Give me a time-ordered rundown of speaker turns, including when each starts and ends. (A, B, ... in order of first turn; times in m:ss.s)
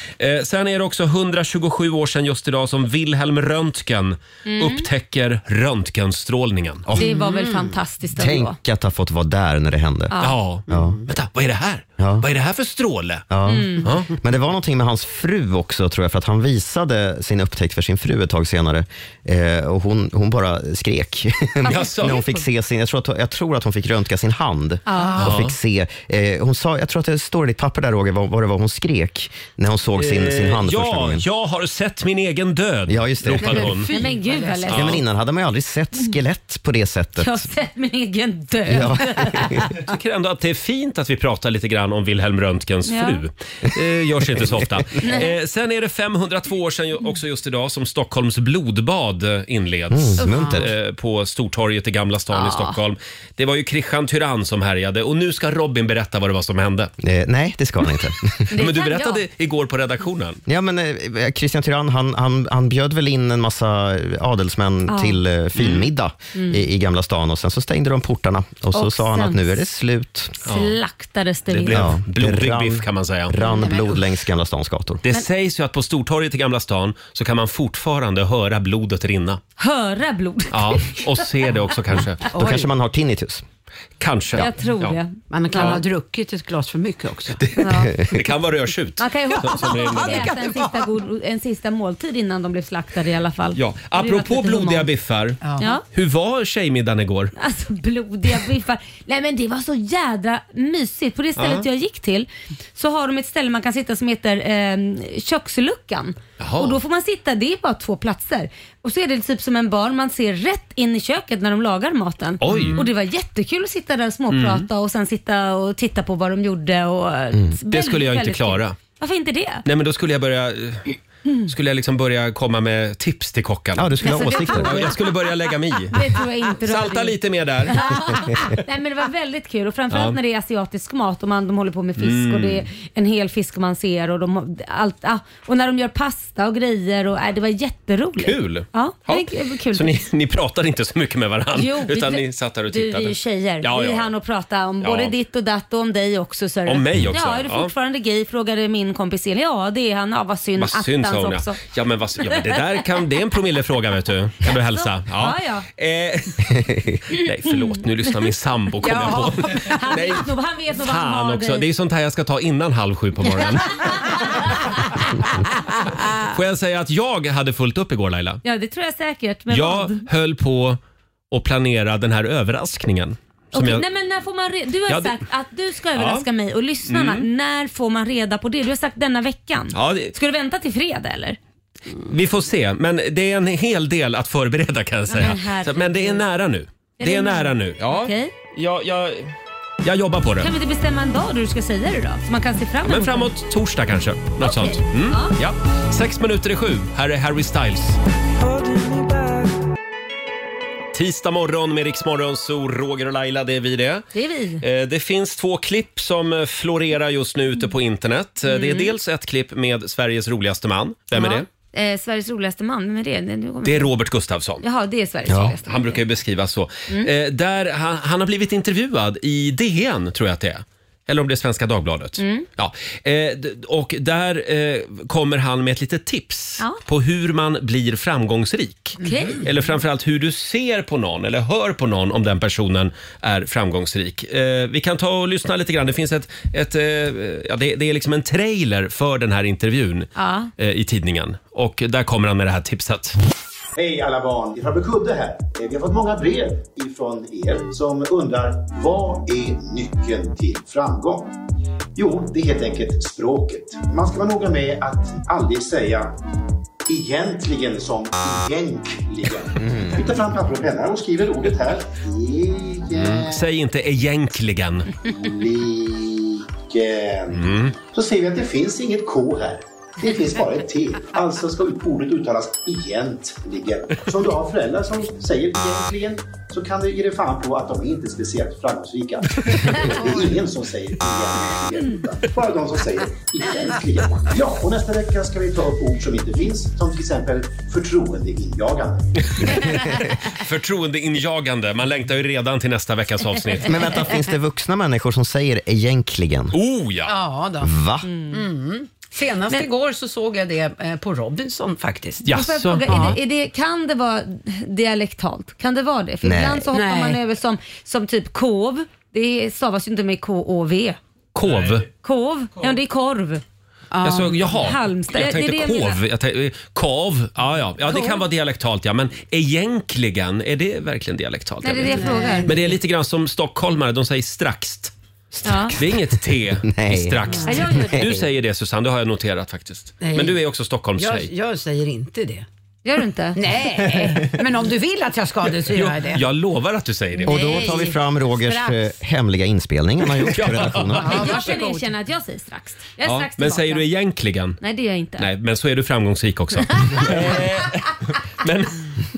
0:00.2-0:06.9 A
0:04.5-0:04.9 B
0:07.0-0:07.7 C
0:07.0-0:08.6 B
0:08.2-0:10.1 D
0:10.1-0:10.4 B
0:10.2-0:13.3 A
0:10.7-0:11.0 D
0:10.7-0:11.0 C
0:12.0-0:12.3 D
0:13.3-0:31.2 D
0:13.5-0:13.9 B
0:13.8-0:14.1 A
0:21.6-0:22.4 B
0:21.6-0:22.2 A
0:24.9-0:25.2 B
0:25.0-0:25.3 C
0:25.2-0:25.5 A
0:30.0-0:33.9 A
0:32.9-0:33.7 D
0:33.6-0:34.7 C
0:33.9-0:35.0 B
0:34.7-0:35.0 A
0:34.7-0:37.5 D
0:37.2-0:39.6 B
0:38.7-0:39.6 D
0:39.8-0:56.9 A
0:42.9-0:43.2 B
0:45.0-0:45.3 B
0:49.9-0:50.7 D
0:50.2-0:50.5 B
0:52.3-0:52.8 B
0:57.0-0:58.4 D
0:58.5-0:59.2 B
0:58.6-1:00.4 A
1:00.5-1:10.4 D
1:04.9-1:05.2 B
1:05.6-1:05.9 A
1:06.4-1:06.6 B
1:08.7-1:09.6 B
1:10.4-1:11.8 B
1:10.5-1:10.8 A
1:11.5-1:13.4 A
1:11.7-1:15.0 D
1:13.4-1:13.7 B
1:13.6-1:14.0 C
1:15.0-1:19.4 A
1:19.6-1:21.1 B
1:20.5-1:22.2 A
1:22.3-1:22.7 C
1:22.3-1:23.4 D
1:24.0-1:25.0 A
1:24.4-1:25.8 B
1:25.3-1:27.5 C
1:27.4-1:30.3 A
1:27.6-1:27.9 B
1:29.0-1:34.9 B
1:29.5-1:30.8 C
1:33.6-1:35.4 A
1:35.4-1:35.7 C
1:35.6-1:35.8 B
1:35.9-1:37.3 A
1:37.4-1:59.6 B
1:41.4-1:41.7 A
1:46.4-1:46.8 A
1:52.4-1:52.8 A
1:52.5-1:52.8 C
1:54.3-1:54.7 A
1:57.7-1:58.8 A
1:59.7-2:01.0 A
2:01.5-2:06.0 A
2:03.8-2:04.9 D
2:04.0-2:05.0 B
2:05.9-2:07.2 B
2:06.6-2:08.0 A
2:07.7-2:20.0 B
2:09.9-2:10.2 A
2:12.0-2:12.6 A
2:18.2-2:24.1 A
2:21.6-2:31.6 B
2:24.8-2:25.1 A
2:26.7-2:27.7 A
2:30.6-2:44.1 A
2:32.3-2:32.8 B
2:34.5-2:35.6 B
2:37.1-2:37.8 B
2:38.8-2:39.8 C
2:39.5-2:41.6 B
2:43.7-2:45.0 B
2:46.2-2:48.4 A
2:48.4-2:50.0 B
2:49.5-2:50.8 A
2:51.3-2:53.8 A
2:53.5-3:01.4 B
2:54.9-2:55.2 A
2:55.9-2:56.3 A
2:56.9-2:57.3 A
2:59.7-3:00.2 A
3:02.1-3:10.5 A
3:05.1-3:06.2 B
3:07.0-3:08.3 B
3:10.4-3:13.3 B
3:12.8-3:18.0 A
3:14.4-3:15.3 B
3:20.9-3:24.1 A
3:24.1-3:24.6 B
3:24.6-3:31.5 A
3:28.5-3:28.9 B
3:31.1-3:33.9 B
3:33.6-3:34.6 A
3:34.6-3:36.0 B
3:35.3-3:35.6 D
3:35.7-4:03.2 A
3:42.2-3:42.4 B
3:49.0-3:49.4 B
3:49.0-3:49.4 C
4:00.2-4:00.5 B
4:03.8-4:11.3 E
4:12.0-4:16.1 E
4:16.9-4:23.4 E
4:19.6-4:20.0 D
4:23.0-4:24.9 A
4:25.0-4:49.6 E
4:27.4-4:27.7 A
4:50.4-4:53.8 A
4:53.7-4:56.6 D
4:56.5-4:57.1 A
4:57.1-4:57.7 C
4:57.6-4:58.1 D
4:58.0-4:58.4 B
4:58.3-5:02.3 C
5:02.2-5:02.9 A
5:02.3-5:11.0 B
5:02.9-5:03.2 C
5:06.2-5:06.7 D
5:06.7-5:07.2 C
5:11.4-5:11.9 A
5:12.0-5:13.4 B
5:13.9-5:14.4 C
5:14.0-5:24.9 A
5:14.5-5:16.0 B
5:17.9-5:18.2 B
5:21.6-5:22.5 B
5:21.9-5:22.7 C
5:25.4-5:25.8 B
5:25.7-5:31.3 A
5:26.7-5:28.2 D
5:27.4-5:28.1 B
5:30.0-5:30.4 C
5:31.0-5:32.5 C
5:32.8-5:33.4 B
5:33.4-5:36.2 C
5:35.7-5:37.4 A
5:37.2-5:38.8 C
5:37.3-5:41.2 D
5:40.3-5:41.1 A
5:41.0-5:41.9 C
5:41.1-5:43.9 B
5:43.0-5:44.6 A
5:44.6-5:45.3 B
5:45.2-5:48.8 A